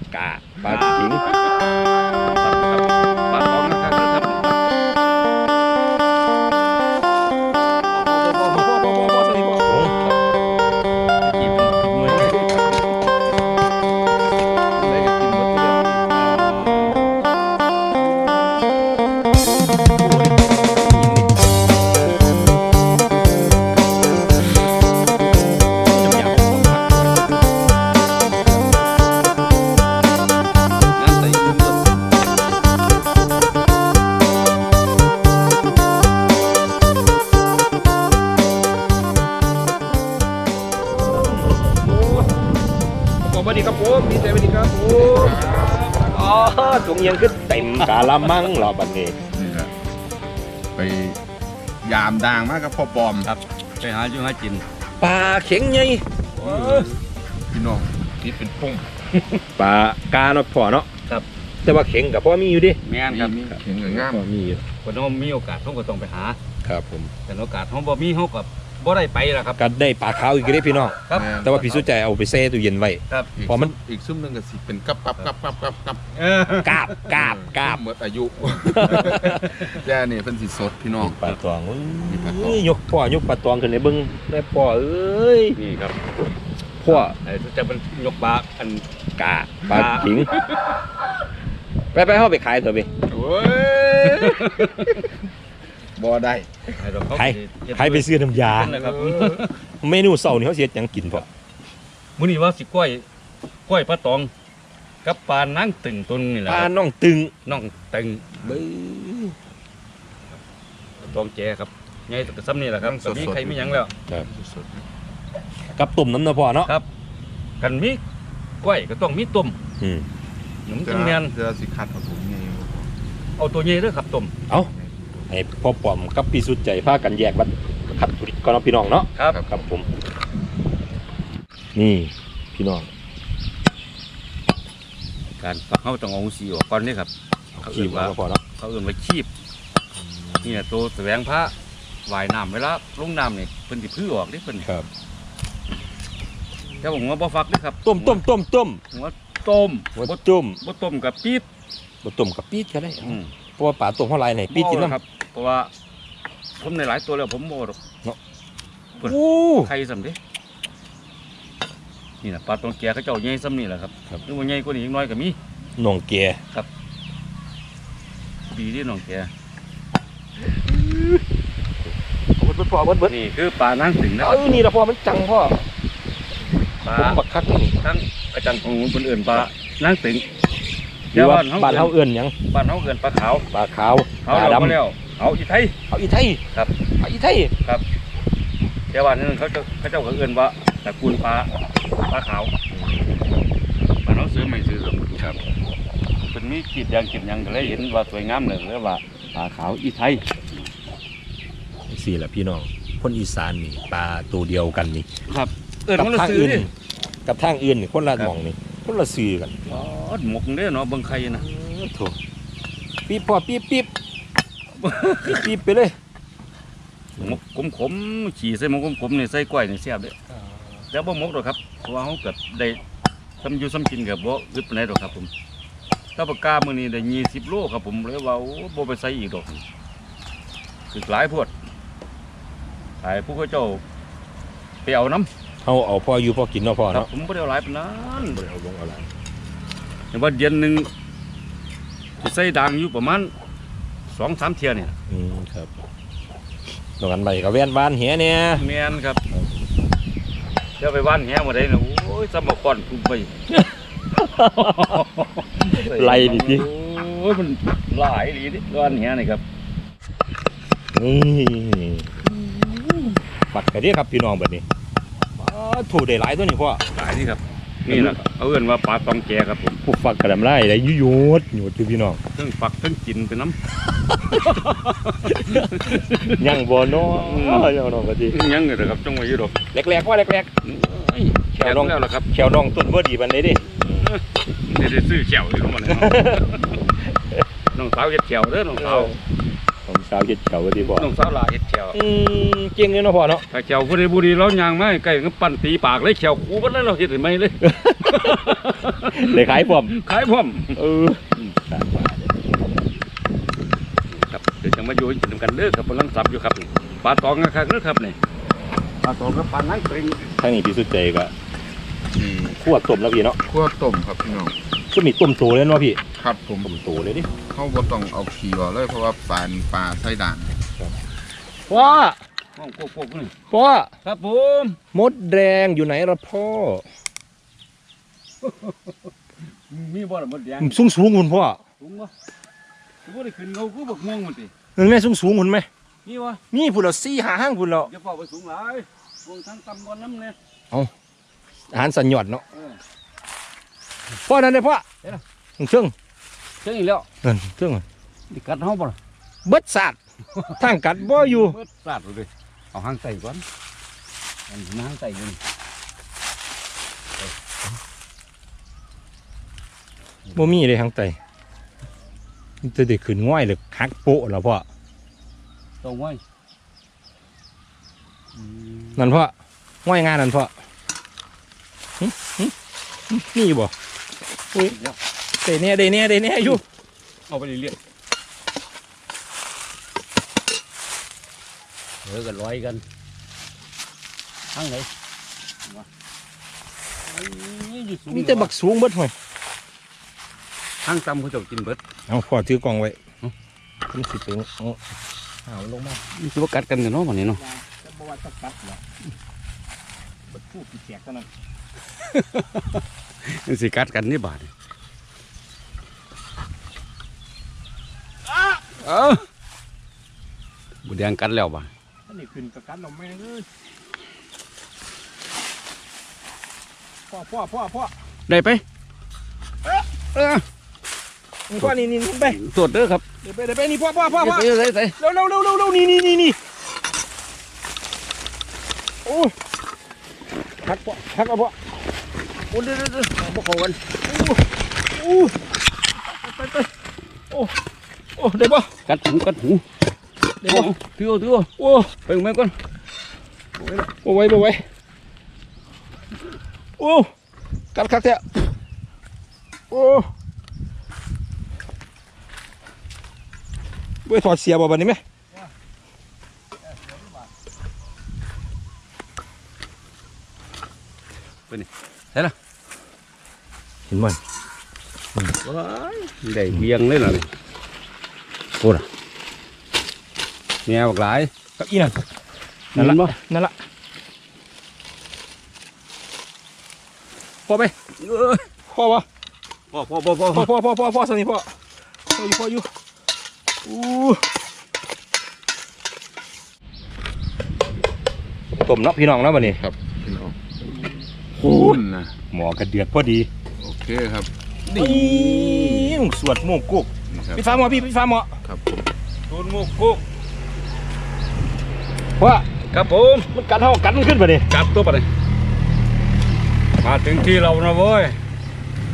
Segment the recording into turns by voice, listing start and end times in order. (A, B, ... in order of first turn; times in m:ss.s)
0:00.1-0:01.2 A
0:00.6-0:01.2 B
0:02.2-0:04.6 B
0:07.9-0:08.6 B
0:08.3-0:10.0 A
0:11.2-0:12.6 B
0:14.8-0:16.4 C
0:20.0-0:21.3 A
0:25.8-0:27.4 A
0:31.0-0:32.1 B
0:41.2-0:41.9 A
0:43.2-0:49.2 A
0:44.8-0:45.6 C
0:45.0-0:46.1 B
0:47.7-0:48.4 B
0:49.3-0:49.7 C
0:50.8-0:51.2 C
0:51.8-0:53.3 C
0:53.2-0:54.6 B
0:55.0-0:56.0 A
0:56.4-0:56.9 B
0:56.4-0:58.9 C
0:59.2-0:59.4 B
0:59.6-1:00.9 A
1:01.6-1:02.8 A
1:02.8-1:03.3 B
1:03.1-1:04.3 C
1:03.8-1:04.6 A
1:04.8-1:06.4 B
1:06.6-1:07.1 A
1:07.3-1:09.6 B
1:09.6-1:13.8 A
1:11.1-1:11.8 B
1:11.1-1:11.7 C
1:13.4-1:16.0 C
1:16.2-1:17.1 B
1:16.6-1:17.8 A
1:17.2-1:21.2 C
1:18.7-1:19.5 A
1:18.8-1:19.7 B
1:21.0-1:25.6 A
1:22.0-1:22.6 C
1:25.6-1:26.0 B
1:26.8-1:27.2 A
1:26.9-1:28.8 B
1:29.2-1:30.3 A
1:29.6-1:30.8 B
1:31.9-1:32.9 A
1:33.0-1:35.0 C
1:34.0-1:35.0 B
1:36.0-1:36.8 C
1:36.8-1:39.5 B
1:37.1-1:38.8 A
1:38.7-1:39.4 C
1:39.8-1:41.3 A
1:42.2-1:43.0 B
1:43.7-1:44.3 B
1:45.0-1:46.7 B
1:46.5-1:47.3 A
1:47.5-1:48.6 B
1:48.4-1:49.4 A
1:51.0-1:53.9 B
1:52.8-1:54.8 C
1:55.7-1:56.7 A
1:57.6-1:58.0 B
1:58.6-1:59.6 B
1:59.8-2:00.1 A
2:00.7-2:01.3 B
2:00.7-2:02.9 C
2:03.4-2:04.3 B
2:04.7-2:05.3 C
2:05.3-2:09.9 A
2:11.8-2:12.9 A
2:15.4-2:17.1 B
2:17.6-2:18.4 A
2:17.6-2:19.3 B
2:20.0-2:20.6 A
2:20.4-2:21.5 B
2:22.1-2:24.7 B
2:24.6-2:24.9 A
2:26.8-2:28.2 B
2:27.8-2:28.8 A
2:28.9-2:31.4 B
2:30.0-2:30.6 A
2:32.0-2:35.0 A
2:33.0-2:33.3 B
2:34.5-2:35.7 B
2:36.6-2:37.8 B
2:39.0-2:40.2 B
2:39.0-2:39.7 A
2:42.2-2:45.4 B
2:45.8-2:46.4 A
2:48.5-2:49.3 B
2:50.7-2:51.2 A
2:52.4-2:53.1 A
2:53.1-2:54.5 B
2:54.2-2:55.6 A
2:56.8-2:57.2 B
2:56.9-2:57.8 A
2:57.8-3:00.3 B
3:01.1-3:02.3 A
3:01.1-3:02.0 B
3:02.5-3:03.5 B
3:03.5-3:04.8 A
3:04.2-3:05.8 B
3:05.9-3:06.4 A
3:07.0-3:07.5 A
3:08.9-3:11.5 B
3:12.1-3:12.5 B
3:12.7-3:13.2 A
3:13.9-3:15.4 B
3:16.2-3:20.2 B
3:21.9-3:25.1 A
3:25.3-3:26.7 B
3:26.0-3:26.7 A
3:27.2-3:29.6 A
3:29.7-3:31.5 B
3:31.2-3:32.2 A
3:33.1-3:33.9 A
3:34.8-3:35.5 B
3:35.1-3:36.0 A
3:37.2-3:40.2 B
3:40.9-3:42.8 B
3:43.4-3:45.3 B
3:46.2-3:49.6 B
3:50.9-3:51.5 B
3:53.0-3:53.8 B
3:54.8-3:55.3 B
3:55.6-3:57.1 A
3:56.9-3:58.4 B
3:58.3-3:59.1 A
4:00.1-4:00.9 B
4:02.2-4:03.3 B
4:04.1-4:05.0 B
4:05.1-4:05.7 A
4:07.0-4:08.6 A
4:08.5-4:09.2 B
4:10.8-4:13.3 B
4:13.5-4:15.1 A
4:14.5-4:19.4 B
4:15.6-4:16.7 A
4:20.9-4:22.2 A
4:22.4-4:23.2 B
4:23.5-4:24.6 A
4:25.4-4:26.8 A
4:26.9-4:29.8 B
4:27.9-4:28.2 A
4:29.8-4:32.2 A
4:32.4-4:33.6 B
4:34.1-4:34.6 A
4:34.4-4:37.7 B
4:35.2-4:38.4 A
4:38.3-4:39.6 B
4:39.7-4:40.5 A
4:40.6-4:42.3 B
4:41.5-4:44.1 A
4:43.7-4:46.8 B
4:45.9-4:47.4 A
4:47.7-4:49.2 B
4:48.8-4:49.2 A
4:49.9-4:51.1 A
4:50.8-4:52.0 B
4:51.9-4:53.4 A
4:53.5-5:00.8 B
4:57.6-5:00.0 A
5:00.8-5:02.3 A
5:04.1-5:08.2 B
5:09.0-5:10.3 B
5:10.4-5:11.3 A
5:12.1-5:12.6 C
5:12.6-5:13.4 A
5:13.5-5:14.5 C
5:14.9-5:16.0 A
5:16.1-5:16.7 C
5:16.6-5:17.3 A
5:17.5-5:20.5 C
5:21.7-5:22.2 A
5:22.6-5:23.3 B
5:23.5-5:23.9 A
5:24.0-5:24.8 B
5:24.9-5:26.9 A
5:28.4-5:30.8 B
5:30.6-5:31.6 A
5:31.8-5:32.1 B
5:33.0-5:34.5 B
5:34.8-5:35.7 A
5:36.0-5:36.4 B
5:36.5-5:37.9 A
5:37.9-5:40.4 B
5:41.7-5:42.4 A
5:44.2-5:44.9 A
5:45.6-5:45.9 A
5:46.6-5:47.1 B
5:47.2-5:47.8 A
5:48.3-5:49.0 B
5:49.4-5:50.0 A
5:50.3-5:53.4 B
5:50.6-5:51.6 A
5:54.5-5:55.4 B
6:00.3-6:01.2 A
6:02.6-6:04.6 A
6:05.8-6:06.2 B
6:08.4-6:09.0 B
6:09.0-6:10.5 A
6:12.0-6:12.5 A
6:13.1-6:13.7 A
6:14.6-6:15.0 B
6:15.4-6:16.6 A
6:17.3-6:17.8 B
6:22.0-6:22.8 B
6:24.5-6:24.9 B
6:27.0-6:28.5 B
6:28.1-6:29.1 A
6:30.8-6:31.8 B
6:32.1-6:33.0 A
6:33.9-6:34.8 A
6:35.5-6:36.0 A
6:36.2-6:37.4 B
6:37.4-6:38.8 A
6:40.3-6:41.3 A
6:42.0-6:44.5 B
6:48.8-6:49.2 B
6:50.8-6:51.7 B
6:52.1-6:53.5 A
6:57.1-6:57.9 A
6:58.3-6:58.6 B
7:00.1-7:00.4 B
7:01.5-7:02.4 A
7:02.3-7:03.0 B
7:03.2-7:06.4 A
7:04.1-7:05.0 B
7:09.0-7:09.3 A
7:10.6-7:11.6 A
7:12.5-7:13.8 B
7:14.1-7:14.4 A
7:15.0-7:15.4 A
7:16.1-7:16.7 A
7:18.2-7:18.7 A
7:18.9-7:19.6 B
7:20.4-7:20.7 A
7:20.5-7:22.5 B
7:21.6-7:21.9 A
7:23.6-7:24.6 A
7:26.8-7:27.1 A
7:27.7-7:28.5 A
7:29.7-7:30.1 A
7:34.0-7:35.0 A
7:41.5-7:42.3 B
7:43.9-7:44.2 A
7:45.4-7:47.3 B
7:48.6-7:48.9 B
7:50.7-7:51.3 B
7:51.6-7:52.0 A
7:52.8-7:53.2 B
7:52.8-7:53.6 A
7:57.5-7:57.7 A
7:58.0-7:58.4 B
7:58.7-7:59.1 A
7:59.7-8:00.5 B
8:00.3-8:01.5 A
8:02.1-8:02.7 A
8:03.6-8:04.3 A
8:08.6-8:09.6 A
8:09.4-8:12.1 C
8:11.4-8:11.8 A
8:12.3-8:13.3 A
8:13.6-8:16.0 C
8:14.7-8:18.3 A
8:17.1-8:17.8 C
8:18.4-8:18.9 C
8:19.3-8:20.0 B
8:22.2-8:22.5 A
8:22.7-8:23.4 B
8:23.3-8:24.5 A
8:24.5-8:25.1 B
8:26.8-8:28.2 B